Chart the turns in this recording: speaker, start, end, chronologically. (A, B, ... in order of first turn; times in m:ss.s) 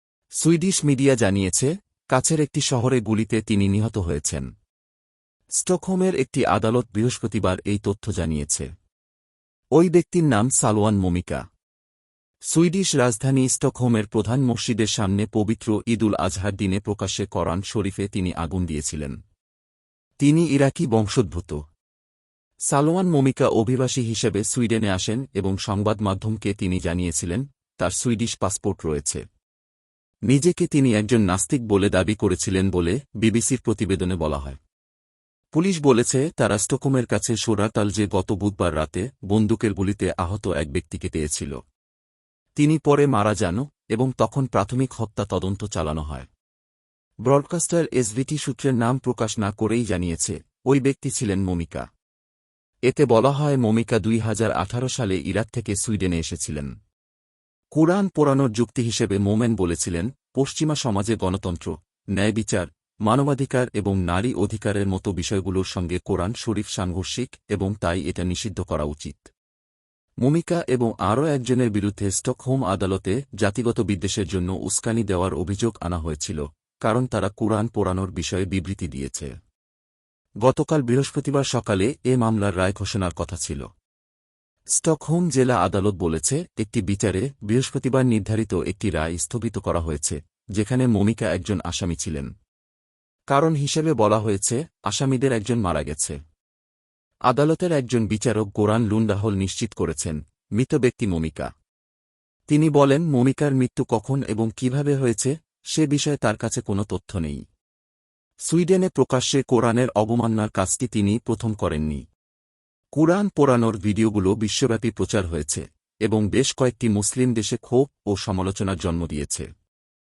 0:00.4-0:04.5 A
0:05.6-0:08.7 A
0:09.8-0:11.4 A
0:12.5-0:19.2 A
0:20.2-0:21.6 A
0:22.7-0:29.2 A
0:30.3-0:34.6 A
0:35.5-0:41.6 A
0:42.6-0:46.3 A
0:47.3-0:51.9 A
0:52.9-0:56.7 A
0:57.7-1:09.3 A
1:10.2-1:19.3 A
1:20.4-1:23.7 A
1:24.8-1:32.3 A
1:33.3-1:36.2 A
1:37.3-1:41.5 A
1:42.5-1:47.4 A
1:48.5-1:52.0 A
1:53.0-1:59.5 A